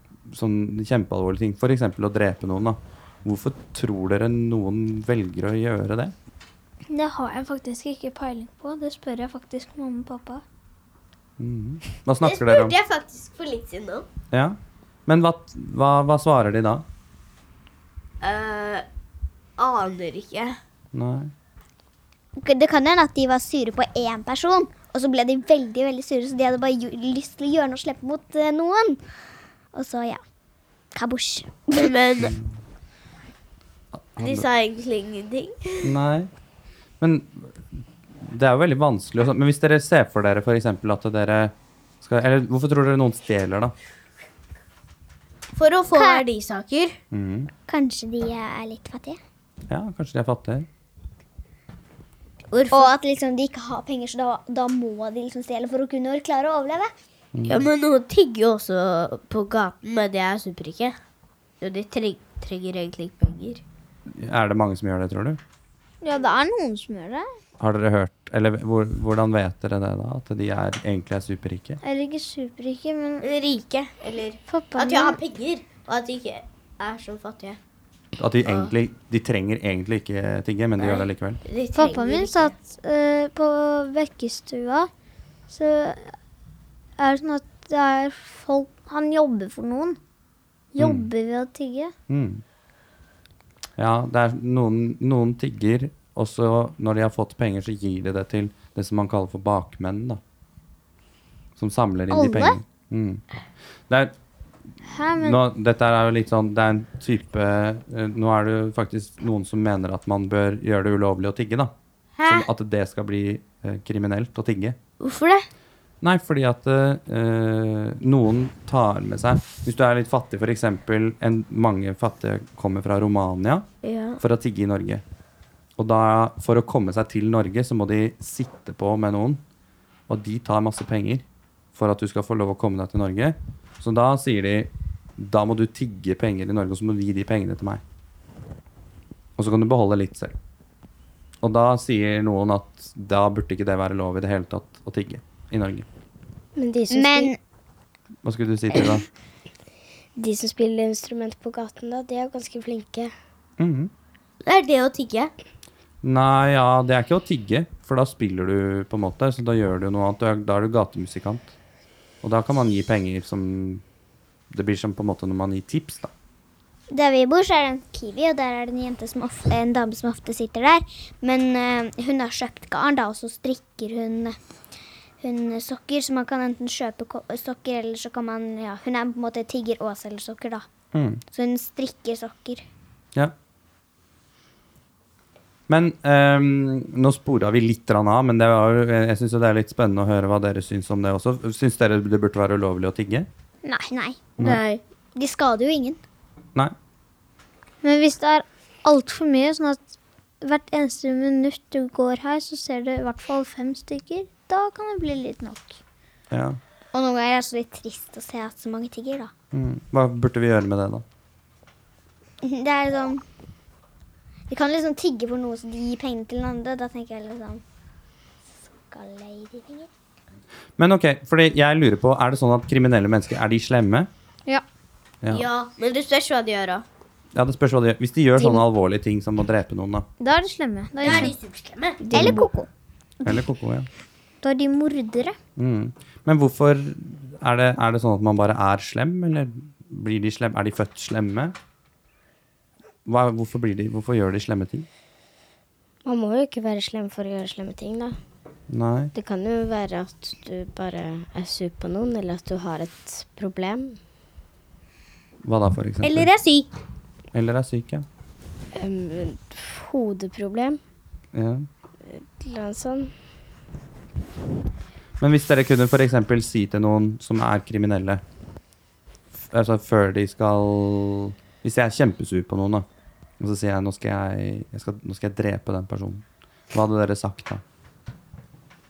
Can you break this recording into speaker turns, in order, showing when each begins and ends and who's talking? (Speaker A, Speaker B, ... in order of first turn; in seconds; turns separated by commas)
Speaker A: 0.3-6.1, Speaker B: 6.9-10.4, Speaker A: 11.4-12.8, Speaker C: 12.2-14.1, Speaker A: 14.3-16.8, Speaker C: 18.2-18.8, Speaker C: 19.6-20.6, Speaker A: 20.9-21.3, Speaker D: 22.4-29.0, Speaker D: 29.7-30.2, Speaker D: 30.9-31.9, Speaker C: 31.8-32.3, Speaker A: 32.2-32.5, Speaker A: 33.9-34.5, Speaker C: 34.2-36.0, Speaker A: 35.8-36.3, Speaker A: 37.0-43.7, Speaker C: 45.5-47.0, Speaker D: 45.9-46.2, Speaker A: 47.1-47.5, Speaker D: 47.7-49.2, Speaker A: 49.7-50.7, Speaker C: 52.5-52.9, Speaker D: 52.7-56.9, Speaker A: 57.3-57.7, Speaker C: 57.5-61.0, Speaker C: 61.6-63.6, Speaker A: 64.1-65.4, Speaker B: 66.0-67.3, Speaker A: 67.6-71.8, Speaker B: 71.8-73.2, Speaker C: 73.2-77.6, Speaker B: 74.5-75.2, Speaker A: 78.2-81.4, Speaker C: 78.4-78.7, Speaker C: 80.8-82.5, Speaker B: 81.7-84.9, Speaker B: 85.5-86.1, Speaker B: 87.0-90.0, Speaker B: 90.7-91.9, Speaker A: 90.8-91.1, Speaker A: 92.1-92.4, Speaker A: 93.8-100.2, Speaker A: 101.5-103.2, Speaker B: 102.1-102.6, Speaker B: 104.8-105.4, Speaker A: 105.1-111.7, Speaker C: 112.2-112.5, Speaker A: 112.2-114.8, Speaker C: 115.0-115.5, Speaker A: 116.0-123.7, Speaker C: 123.8-124.2, Speaker A: 124.2-125.0, Speaker A: 125.8-129.4, Speaker A: 130.1-137.8, Speaker A: 139.4-140.3, Speaker A: 141.4-145.9, Speaker E: 146.6-147.3, Speaker D: 146.9-147.4, Speaker A: 148.2-149.1, Speaker E: 150.2-153.1, Speaker A: 153.6-153.9, Speaker C: 154.4-155.3, Speaker A: 156.0-161.5, Speaker A: 162.2-163.8, Speaker A: 164.5-166.1, Speaker D: 166.9-174.4, Speaker D: 175.2-180.7, Speaker A: 180.9-181.2, Speaker D: 181.3-182.6, Speaker A: 185.7-193.3, Speaker D: 193.6-194.2, Speaker C: 194.4-194.8, Speaker D: 195.2-196.0, Speaker B: 197.8-199.8, Speaker B: 200.4-205.8, Speaker A: 206.3-206.6, Speaker D: 206.9-209.3, Speaker A: 209.5-211.0, Speaker D: 212.4-213.2, Speaker D: 214.5-217.6, Speaker D: 218.9-219.9, Speaker A: 220.8-224.1, Speaker C: 225.3-226.8, Speaker A: 227.3-230.0, Speaker B: 230.2-231.3, Speaker C: 231.0-232.0, Speaker B: 232.0-232.6, Speaker D: 232.1-232.7, Speaker A: 233.2-233.9, Speaker B: 234.4-235.4, Speaker A: 235.6-241.5, Speaker A: 243.0-244.8, Speaker E: 246.0-248.2, Speaker A: 248.7-249.1, Speaker E: 249.1-254.0, Speaker A: 255.4-256.3, Speaker C: 256.0-256.7, Speaker A: 257.3-258.0, Speaker E: 258.7-260.8, Speaker A: 261.3-261.6, Speaker E: 262.1-263.1, Speaker A: 265.2-268.2, Speaker A: 269.4-272.9, Speaker A: 273.4-277.6